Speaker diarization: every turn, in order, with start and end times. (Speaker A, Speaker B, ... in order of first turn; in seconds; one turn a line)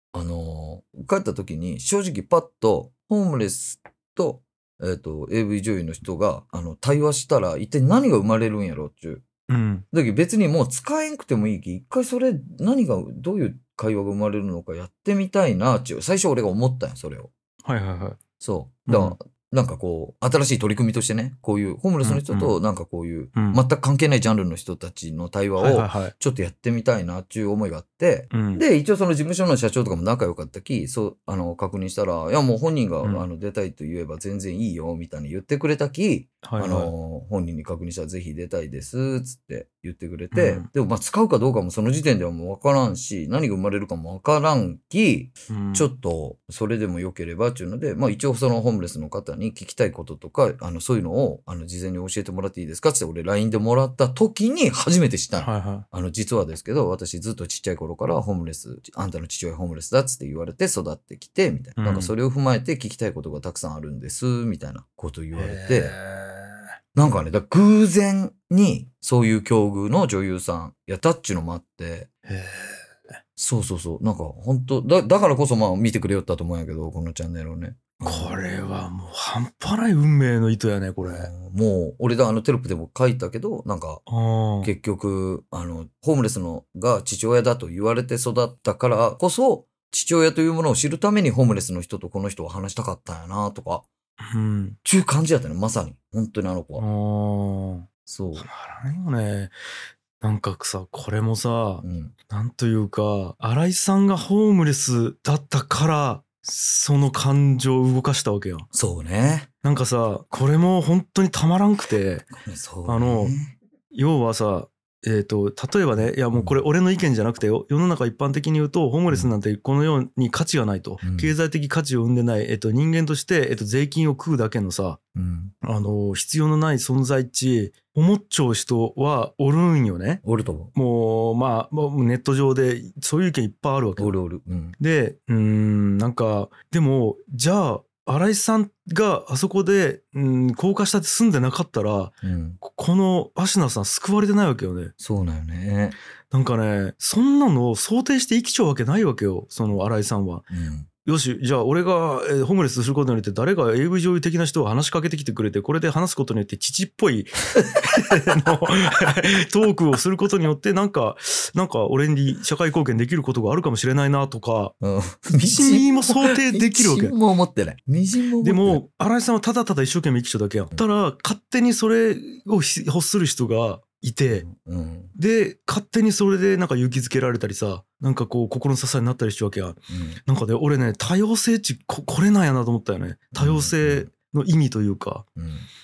Speaker A: 0.1-9.2
Speaker B: 9.5-9.8
Speaker A: 9.9-17.3
Speaker B: 17.6-18.2
Speaker A: 18.4-65.9
Speaker B: 18.9-19.1
Speaker B: 22.0-22.6
Speaker B: 23.3-23.6
Speaker B: 25.6-26.1
Speaker B: 28.3-28.6
Speaker B: 36.4-36.9
Speaker B: 40.3-40.7
Speaker B: 45.5-45.9
Speaker B: 55.4-55.9
Speaker B: 61.8-62.1
Speaker B: 65.3-66.7
Speaker A: 66.9-72.1
Speaker B: 72.2-73.1
Speaker A: 73.4-78.4
Speaker B: 78.0-81.3
Speaker A: 81.0-84.0
Speaker B: 84.1-84.7
Speaker A: 84.6-93.9
Speaker B: 94.2-94.8
Speaker A: 94.8-96.8
Speaker B: 96.8-97.8
Speaker A: 98.1-98.5
Speaker B: 98.4-99.5
Speaker B: 100.2-108.7
Speaker A: 101.8-102.1
Speaker A: 108.7-109.5
Speaker B: 109.6-112.3
Speaker A: 112.3-113.5
Speaker B: 112.8-113.3
Speaker B: 113.9-125.0
Speaker A: 121.0-121.3
Speaker A: 125.1-125.5
Speaker B: 125.6-130.2
Speaker A: 130.2-130.7
Speaker B: 130.7-134.1
Speaker A: 134.0-134.8
Speaker B: 134.8-144.9
Speaker A: 142.2-142.6
Speaker A: 145.0-145.9
Speaker B: 146.3-150.4
Speaker A: 150.5-150.9
Speaker B: 151.0-164.7
Speaker A: 164.8-168.8
Speaker B: 165.4-167.1
Speaker B: 168.4-174.4
Speaker A: 174.3-175.1
Speaker B: 175.2-185.2
Speaker A: 179.9-180.2
Speaker A: 183.3-184.1
Speaker A: 185.3-185.7